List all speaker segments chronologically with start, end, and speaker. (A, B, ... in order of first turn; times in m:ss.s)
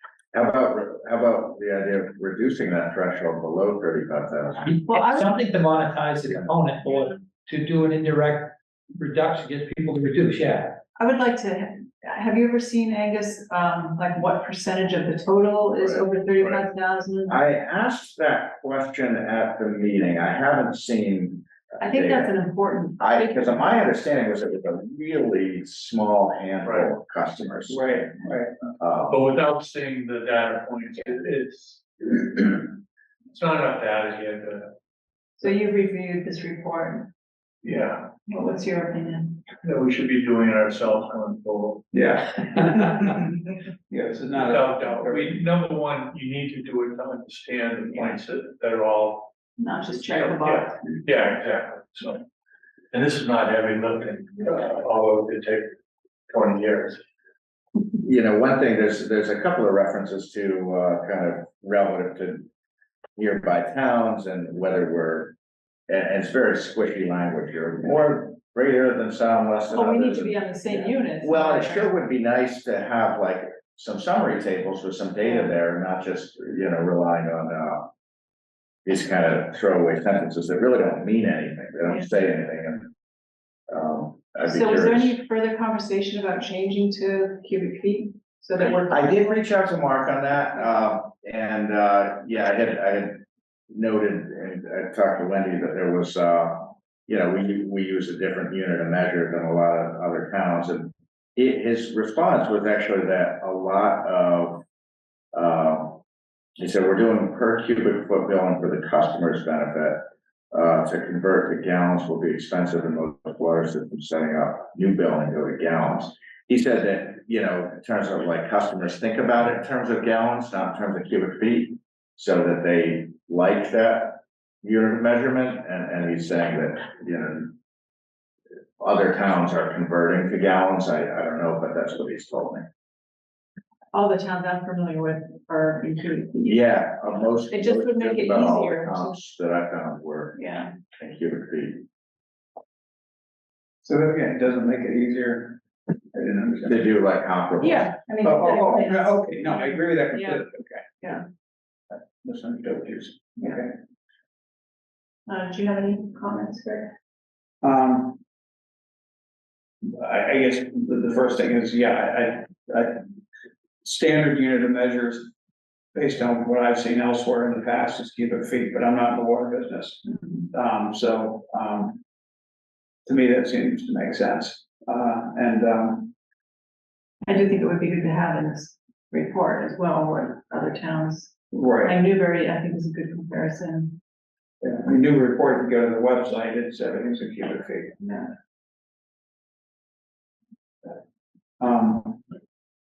0:00.3-0:04.8 A
0:04.6-0:10.8 B
0:04.9-0:05.2 C
0:11.0-0:17.4 C
0:15.8-0:16.6 A
0:17.3-0:22.4 A
0:21.8-0:23.7 C
0:23.0-0:27.8 A
0:26.6-0:26.9 D
0:27.7-0:28.5 E
0:28.8-0:29.2 A
0:29.1-0:32.8 D
0:33.3-0:34.7 D
0:35.4-0:37.1 C
0:37.6-0:38.1 D
0:38.3-0:39.4 C
0:39.6-0:41.8 D
0:41.9-0:45.4 E
0:44.4-0:49.3 D
0:49.6-0:51.0 C
0:50.0-0:52.2 D
0:52.9-0:55.7 D
0:56.3-0:57.0 D
0:58.0-1:02.5 A
1:03.2-1:05.4 A
1:05.9-1:17.9 A
1:09.7-1:11.9 C
1:18.8-1:22.9 A
1:23.7-1:25.2 A
1:24.4-1:29.4 C
1:28.6-1:44.6 A
1:45.3-1:46.0 A
1:46.6-2:07.5 A
2:08.8-2:12.6 A
2:13.9-2:19.1 C
2:16.4-2:20.4 A
2:20.4-2:20.7 C
2:20.9-2:21.8 A
2:23.8-2:25.6 E
2:26.1-2:26.8 E
2:26.7-2:28.4 A
2:27.6-2:29.6 C
2:28.2-2:31.1 E
2:30.1-2:30.4 C
2:31.9-2:33.7 E
2:35.3-2:36.9 C
2:37.6-2:38.2 E
2:39.8-2:43.0 E
2:43.8-2:45.3 E
2:45.9-2:52.0 E
2:53.0-2:56.1 E
2:57.2-3:04.0 C
3:01.5-3:02.0 E
3:04.6-3:08.0 E
3:08.0-3:08.3 C
3:11.6-3:12.2 E